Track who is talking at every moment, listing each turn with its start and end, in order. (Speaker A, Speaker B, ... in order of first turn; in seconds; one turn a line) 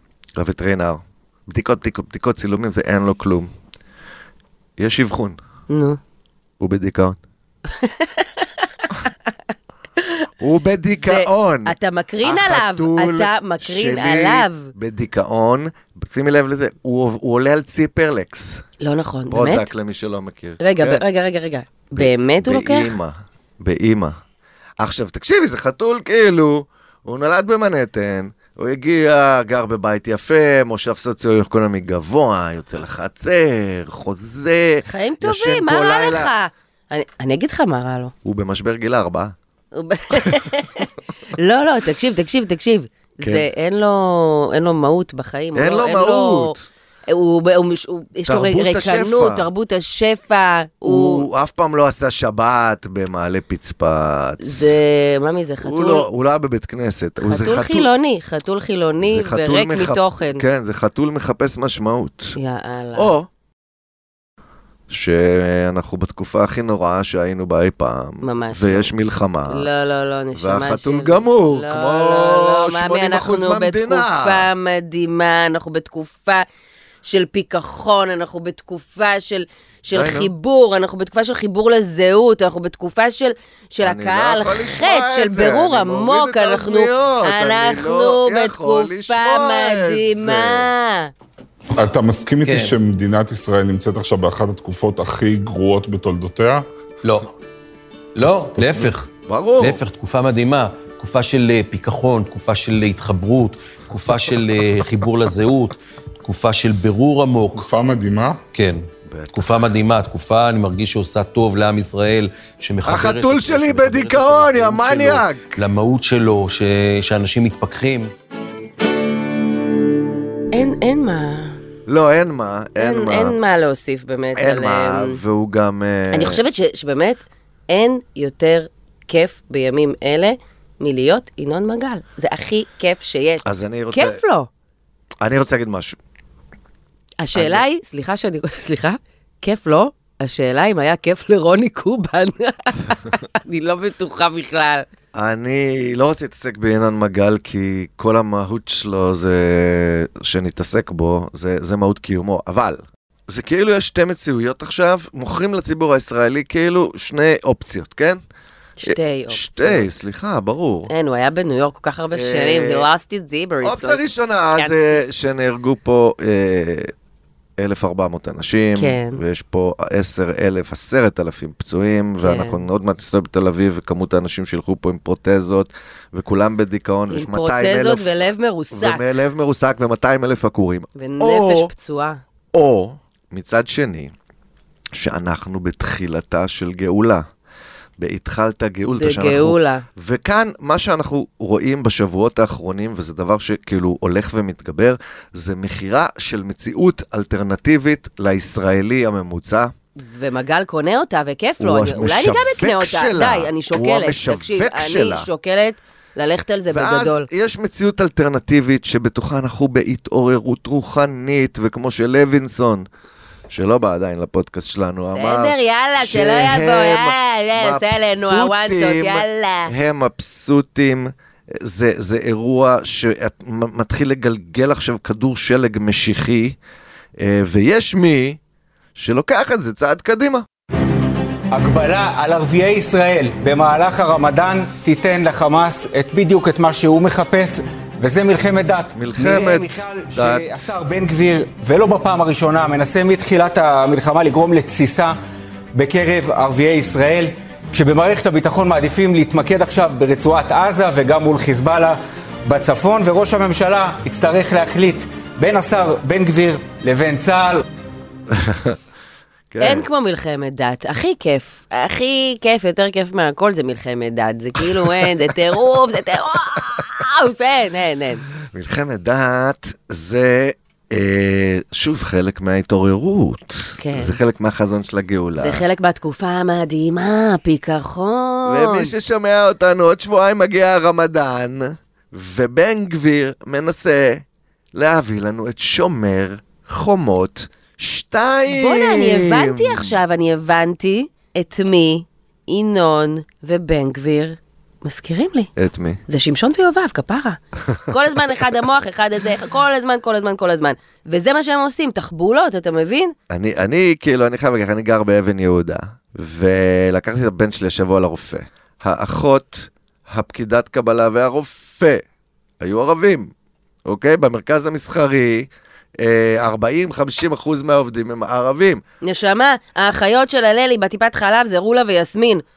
Speaker A: 0.3-3.5
Speaker A: 4.8-5.4
Speaker B: 5.7-6.0
Speaker A: 6.6-7.2
Speaker B: 7.8-8.4
Speaker A: 10.4-18.6
Speaker B: 11.0-14.7
Speaker B: 18.8-19.7
Speaker A: 19.3-21.0
Speaker B: 20.6-23.0
Speaker A: 21.9-24.1
Speaker A: 24.8-36.3
Speaker B: 34.9-38.1
Speaker A: 38.2-39.3
Speaker B: 39.7-46.5
Speaker A: 43.2-43.5
Speaker A: 45.5-46.7
Speaker B: 47.1-51.2
Speaker A: 48.3-49.5
Speaker A: 50.8-54.8
Speaker B: 54.4-56.1
Speaker A: 55.6-57.9
Speaker B: 57.2-60.4
Speaker A: 59.0-62.3
Speaker B: 62.4-63.1
Speaker A: 63.0-63.3
Speaker A: 64.9-69.7
Speaker B: 68.2-68.9
Speaker B: 69.5-76.4
Speaker A: 70.3-74.5
Speaker B: 77.0-91.1
Speaker A: 79.9-80.3
Speaker A: 83.8-90.7
Speaker C: 91.8-96.6
Speaker D: 92.4-92.7
Speaker D: 98.2-99.1
Speaker C: 98.5-98.9
Speaker A: 99.2-99.8
Speaker D: 99.6-107.6
Speaker C: 107.5-108.4
Speaker D: 108.5-118.1
Speaker A: 109.0-109.7
Speaker A: 112.8-115.6
Speaker B: 120.5-121.6
Speaker A: 121.9-123.4
Speaker B: 122.8-125.2
Speaker A: 124.3-126.4
Speaker B: 126.1-134.5
Speaker A: 133.4-134.2
Speaker A: 135.2-136.0
Speaker B: 137.2-144.8
Speaker A: 137.3-137.6
Speaker A: 145.1-158.2
Speaker B: 158.8-159.9
Speaker A: 158.8-160.9
Speaker B: 160.9-164.0
Speaker A: 162.1-162.9
Speaker A: 163.6-166.9
Speaker B: 164.6-165.0
Speaker A: 167.6-178.1
Speaker B: 168.8-169.2
Speaker B: 172.2-172.6
Speaker B: 177.1-179.0
Speaker A: 178.7-181.7
Speaker B: 181.0-182.2
Speaker A: 182.5-184.1
Speaker A: 184.9-187.2
Speaker A: 188.0-199.7
Speaker B: 188.9-189.8
Speaker B: 200.0-207.3
Speaker A: 201.6-205.3
Speaker A: 206.7-212.9
Speaker A: 213.5-226.6
Speaker B: 215.1-219.7
Speaker A: 227.2-228.4
Speaker A: 228.9-230.4
Speaker E: 231.5-245.2
Speaker A: 238.9-240.7
Speaker E: 245.7-257.6
Speaker A: 258.3-258.8
Speaker A: 259.5-259.9
Speaker B: 259.6-268.2
Speaker A: 268.5-275.6
Speaker B: 273.8-274.1
Speaker B: 275.4-278.9
Speaker A: 278.4-289.9
Speaker B: 288.5-295.5
Speaker A: 295.6-296.0
Speaker B: 296.1-303.1
Speaker A: 303.3-312.0
Speaker A: 312.6-313.3
Speaker A: 313.9-318.8
Speaker B: 319.0-322.4